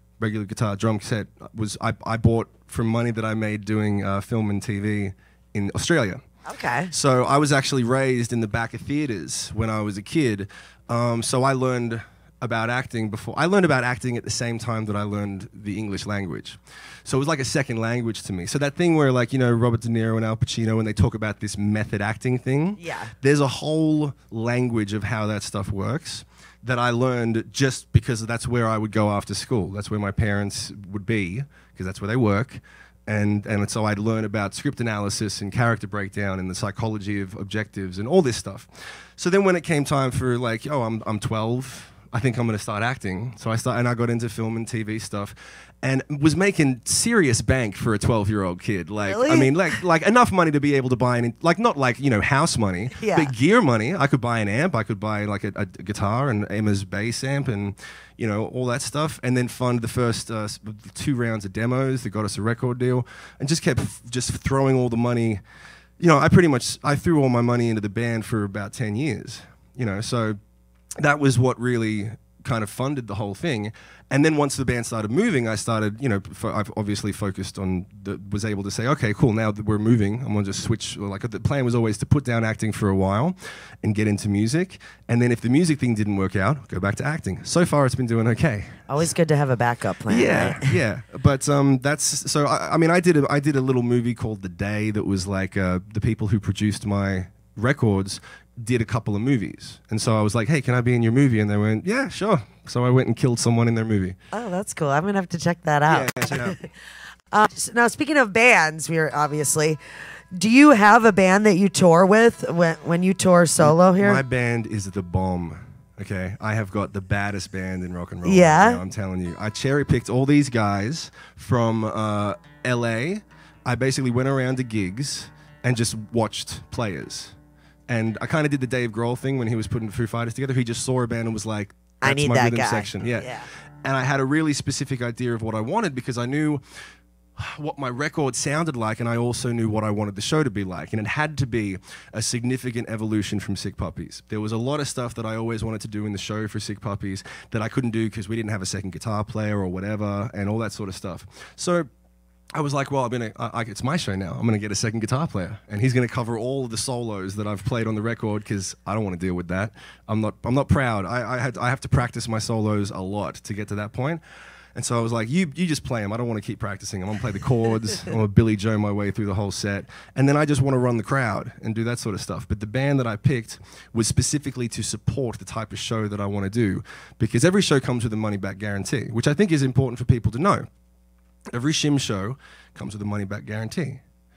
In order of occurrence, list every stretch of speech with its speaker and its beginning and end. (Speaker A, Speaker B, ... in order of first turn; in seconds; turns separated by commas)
Speaker A: 0.2-6.2, Speaker B: 6.4-6.9, Speaker A: 6.9-65.4, Speaker B: 22.8-23.1, Speaker B: 49.0-49.7, Speaker B: 52.9-53.3, Speaker A: 66.0-70.4, Speaker A: 71.0-88.9, Speaker B: 88.9-90.8, Speaker A: 90.1-104.2, Speaker B: 104.3-106.7, Speaker A: 105.9-106.6, Speaker B: 107.3-109.8, Speaker B: 110.3-114.2, Speaker A: 113.6-127.3, Speaker B: 118.2-118.8, Speaker A: 127.9-136.6, Speaker B: 132.0-133.5, Speaker A: 137.3-151.9, Speaker A: 152.5-164.2, Speaker A: 164.7-180.7, Speaker A: 181.5-184.0